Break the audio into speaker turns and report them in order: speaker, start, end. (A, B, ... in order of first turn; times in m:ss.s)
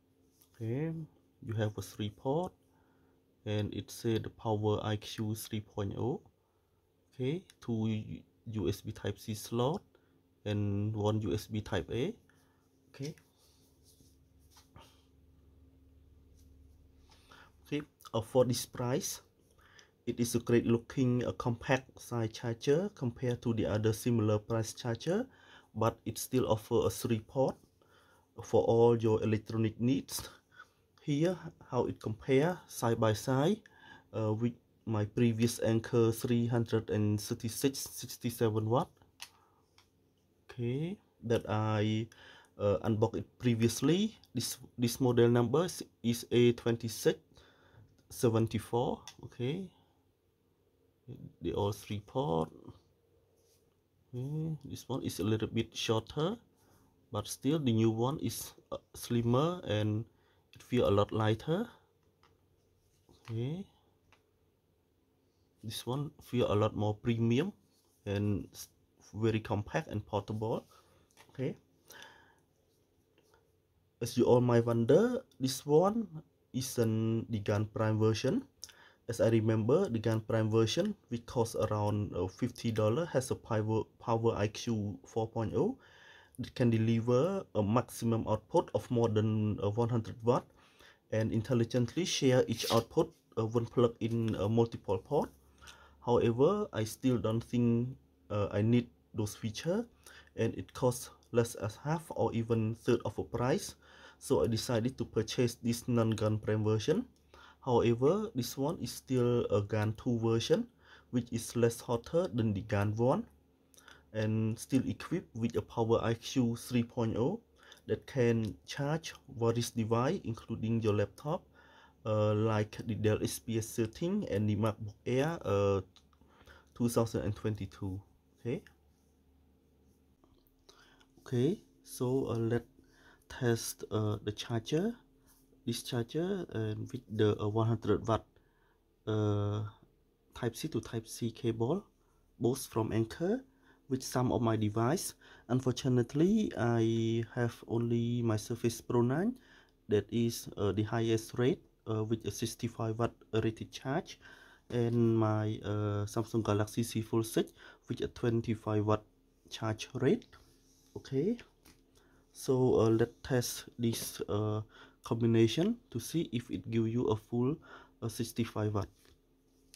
0:00.6-0:02.5 A
0:03.4-0:06.2 A
0:07.1-0:09.8 A
0:10.4-0:12.2 A
0:12.9-0:13.2 A
0:17.6-0:19.2 A
0:20.1-0:27.6 A
0:28.4-0:30.3 A
0:31.0-0:33.6 A
0:34.1-0:38.9 A
0:40.5-0:47.2 A
0:48.1-0:49.7 A
0:51.1-0:52.7 A
0:54.1-0:56.4 A
0:57.1-1:01.7 A
1:03.3-1:03.7 A
1:05.6-1:07.5 A
1:08.0-1:10.6 A
1:11.3-1:11.6 A
1:14.0-1:18.4 A
1:19.1-1:25.8 A
1:26.4-1:30.5 A
1:31.1-1:35.3 A
1:36.0-1:47.1 A
1:47.6-1:53.3 A
1:54.1-2:01.5 A
2:02.0-2:05.8 A
2:06.8-2:08.6 A
2:11.2-2:12.7 A
2:13.3-2:15.0 A
2:15.7-2:18.3 A
2:19.1-2:19.7 A
2:20.3-2:21.9 A
2:22.4-2:29.4 A
2:29.9-2:34.2 A
2:34.7-2:40.4 A
2:41.0-2:41.4 A
2:42.3-2:48.9 A